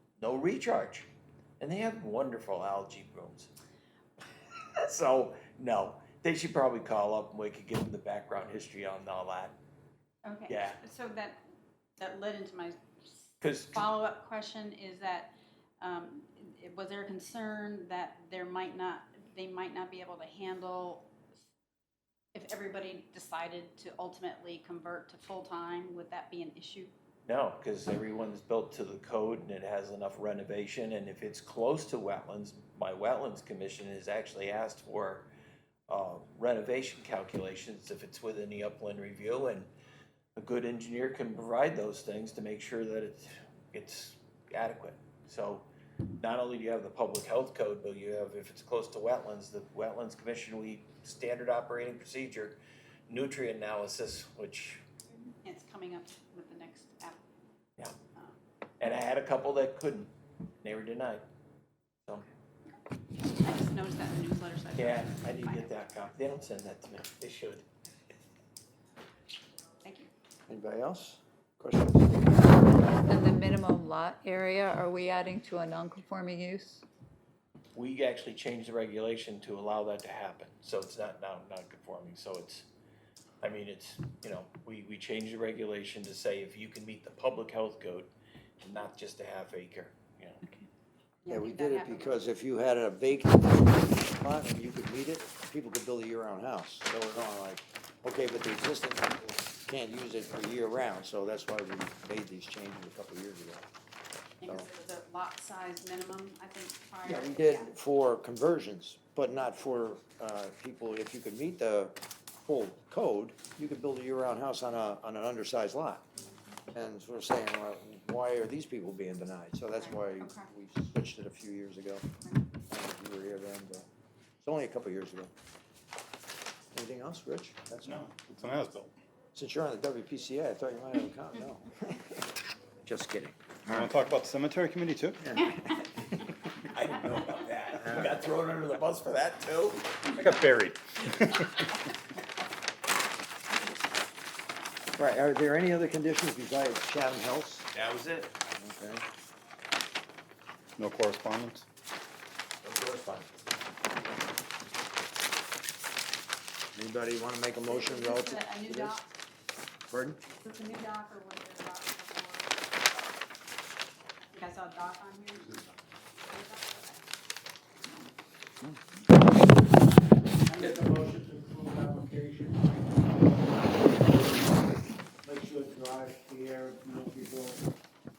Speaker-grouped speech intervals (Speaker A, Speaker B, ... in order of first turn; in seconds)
Speaker A: 0.2-1.1, 1.6-3.5, 4.8-9.6, 10.5-10.8, 13.4-13.8, 27.2-35.3, 35.9-39.7, 40.4-45.6, 46.2-54.8, 58.8-60.1, 60.6-61.2, 64.8-67.6, 77.7-82.7, 83.4-90.4, 136.7-139.9, 147.7-148.3, 152.6-153.4
Speaker B: 10.2-11.4, 12.0-12.8, 13.7-21.1, 22.3-26.9, 55.4-57.2, 63.4-65.7, 69.8-70.1, 91.2-92.2, 104.4-107.7, 119.7-120.5, 122.2-122.5, 157.6-159.1, 160.4-163.2, 164.3-165.7, 166.2-167.0
Speaker C: 70.5-72.5, 91.3-103.7, 107.0-116.0, 116.7-122.0, 122.7-123.8, 124.4-125.3, 126.7-128.3, 129.3-132.2, 132.8-134.0, 137.8-138.1, 144.9-147.7, 148.6-149.0, 156.7-159.0, 159.9-160.2
Speaker D: 72.9-76.8
Speaker E: 127.8-128.9, 133.7-135.4, 140.2-141.5, 150.8-151.7
Speaker F: 170.4-174.6, 175.2-177.6